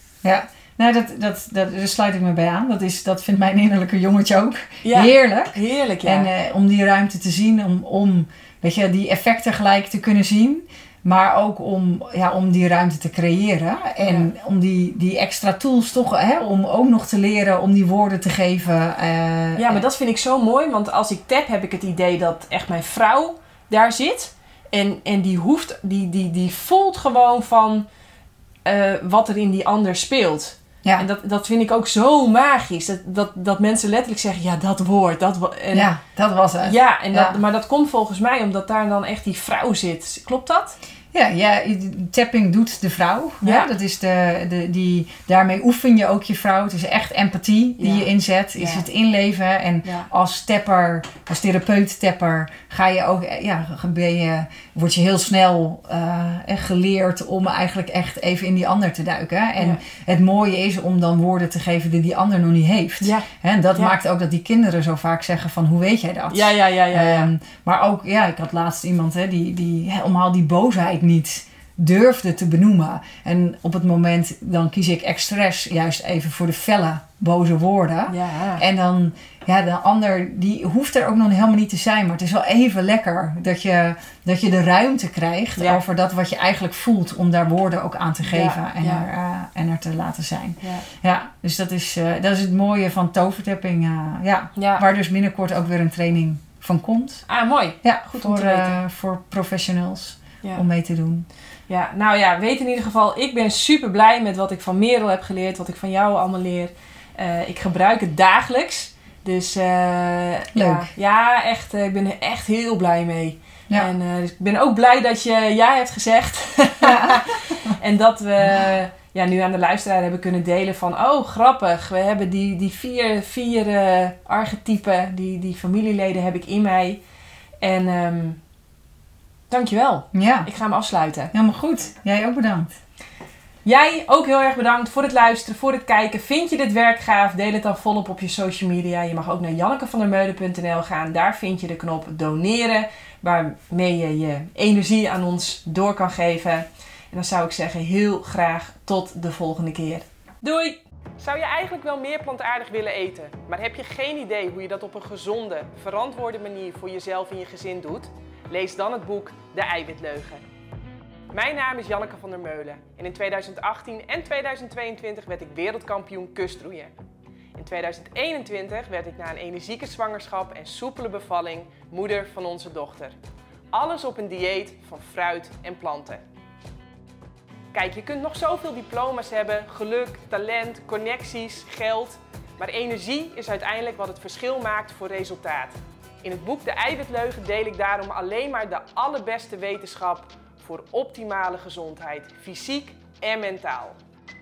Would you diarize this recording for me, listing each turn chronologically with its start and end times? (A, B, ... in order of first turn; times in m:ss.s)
0:00.2-0:19.8 A
0:04.8-0:06.3 B
0:14.0-0:14.3 B
0:19.6-0:27.9 B
0:28.6-0:35.9 B
0:35.7-0:37.4 A
0:36.6-0:40.8 B
0:41.1-1:37.2 A
0:43.4-0:43.7 B
0:47.8-0:48.8 B
1:03.0-1:04.0 B
1:06.3-1:07.3 B
1:18.1-1:18.6 B
1:28.2-1:29.1 B
1:30.6-1:30.9 B
1:34.6-1:34.8 B
1:37.3-1:38.8 B
1:37.8-1:41.3 A
1:41.7-2:07.0 B
1:50.5-1:50.9 A
1:56.8-1:57.7 A
2:07.6-2:08.4 B
2:09.5-2:11.3 B
2:10.1-2:10.5 A
2:11.3-2:12.7 A
2:13.6-2:40.4 B
2:41.3-2:46.9 B
2:47.6-2:53.2 B
2:53.7-2:56.2 B
2:57.7-3:14.0 B